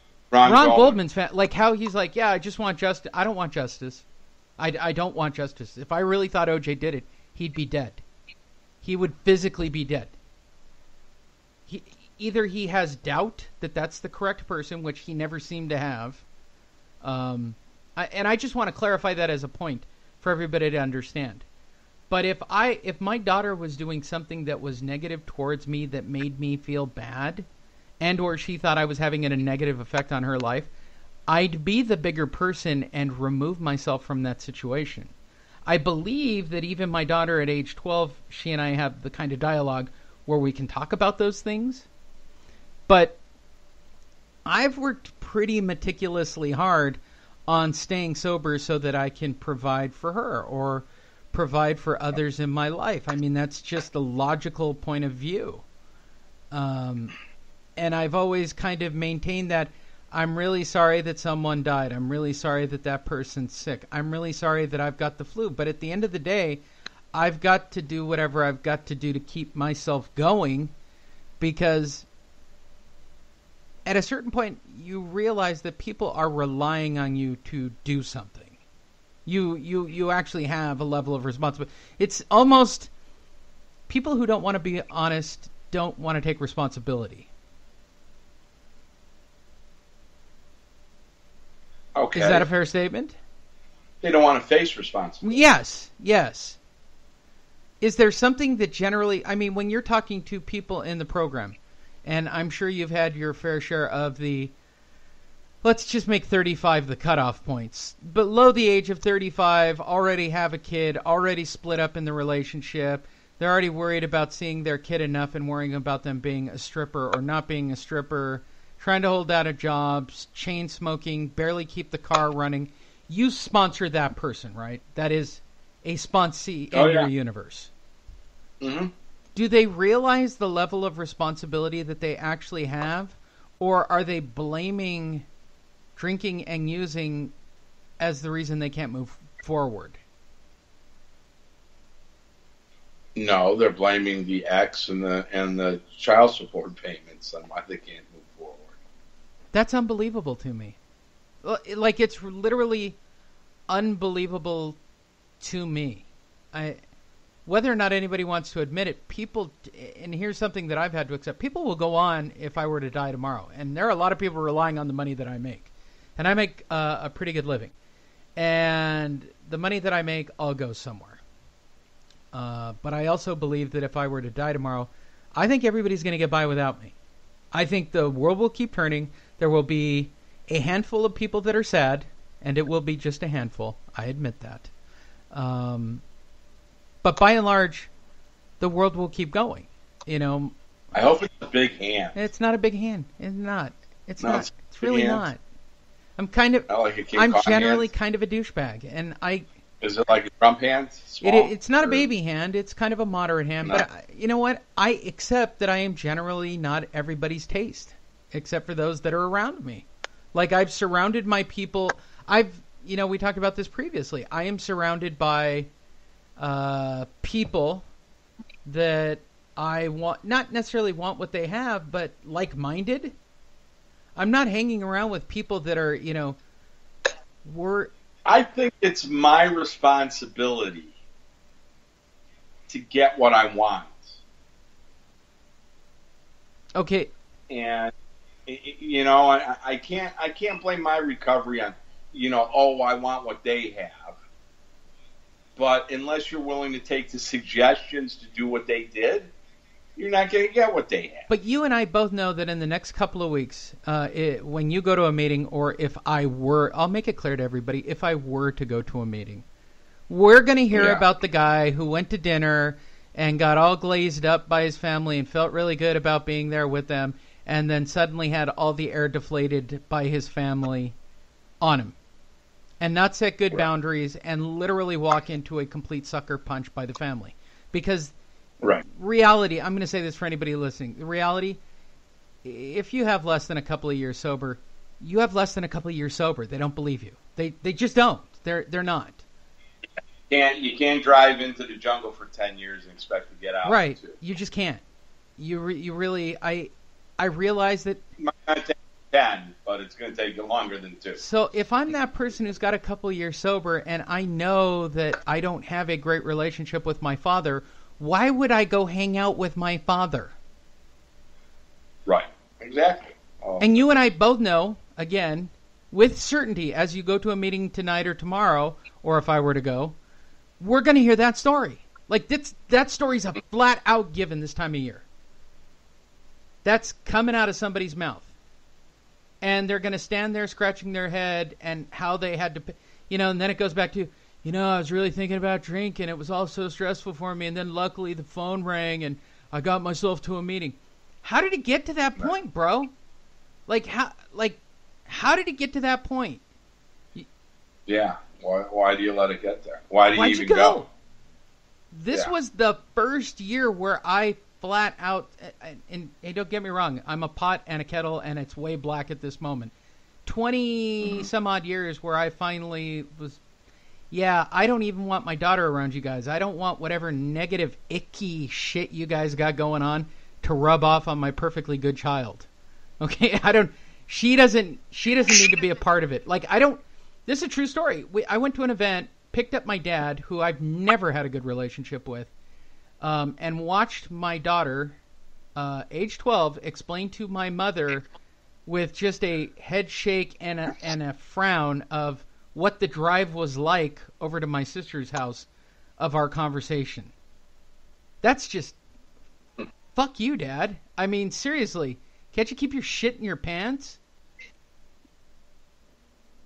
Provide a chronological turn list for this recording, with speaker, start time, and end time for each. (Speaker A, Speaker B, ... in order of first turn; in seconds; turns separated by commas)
Speaker A: 0.3-1.0, Speaker B: 0.4-4.0, Speaker B: 4.6-8.0, Speaker B: 8.8-10.1, Speaker B: 11.7-16.2, Speaker B: 17.0-21.4, Speaker B: 22.1-27.5, Speaker B: 28.0-30.7, Speaker B: 31.3-35.1, Speaker B: 35.6-41.9, Speaker B: 42.9-43.2, Speaker B: 44.4-55.6, Speaker B: 56.5-57.1, Speaker B: 57.8-66.6, Speaker B: 67.1-70.7, Speaker B: 71.4-72.1, Speaker B: 73.8-78.6, Speaker B: 79.2-82.9, Speaker B: 83.9-87.3, Speaker A: 91.9-92.5, Speaker B: 92.1-93.2, Speaker A: 94.0-95.3, Speaker B: 95.2-96.6, Speaker B: 97.8-104.5, Speaker B: 105.6-127.7, Speaker A: 126.7-127.1, Speaker A: 128.6-128.9, Speaker B: 129.3-135.3, Speaker B: 135.9-137.3, Speaker B: 138.0-140.0, Speaker A: 143.2-148.7, Speaker B: 149.5-150.8, Speaker B: 151.4-153.0, Speaker B: 153.7-154.8, Speaker B: 155.4-156.8, Speaker B: 157.4-167.7, Speaker B: 168.3-171.2, Speaker B: 172.3-176.9, Speaker B: 177.5-184.7, Speaker B: 185.3-186.0, Speaker B: 187.0-187.9, Speaker B: 188.6-190.5, Speaker A: 190.9-192.2, Speaker B: 192.1-195.4, Speaker A: 194.2-195.2, Speaker B: 196.2-199.4, Speaker A: 196.7-197.9, Speaker A: 199.8-202.0, Speaker B: 201.2-215.7, Speaker B: 216.4-217.8, Speaker B: 218.6-223.2, Speaker B: 224.2-226.4, Speaker B: 227.4-227.9, Speaker A: 228.2-230.9, Speaker A: 232.7-234.1, Speaker B: 236.8-237.1, Speaker A: 237.5-237.9, Speaker A: 238.5-244.2, Speaker A: 245.6-249.3, Speaker A: 249.9-251.3, Speaker B: 251.3-259.4, Speaker B: 260.1-270.9, Speaker A: 260.7-261.0, Speaker B: 271.6-271.9, Speaker B: 272.8-278.1, Speaker B: 278.8-281.6, Speaker B: 282.4-289.2, Speaker A: 290.3-294.1, Speaker B: 293.6-294.8, Speaker B: 295.4-298.0, Speaker A: 298.2-301.2, Speaker B: 301.2-310.4, Speaker A: 312.1-313.7, Speaker B: 313.6-319.9, Speaker B: 320.6-325.0, Speaker B: 326.6-328.3, Speaker B: 329.4-342.9, Speaker B: 343.7-346.4, Speaker A: 347.9-350.8, Speaker B: 350.1-350.9, Speaker B: 351.9-359.7, Speaker B: 360.2-363.4, Speaker B: 364.1-372.5, Speaker B: 373.0-382.3, Speaker B: 383.0-385.0, Speaker B: 385.6-388.1, Speaker B: 388.6-395.5, Speaker B: 396.0-397.1, Speaker B: 398.2-398.8, Speaker B: 399.9-404.0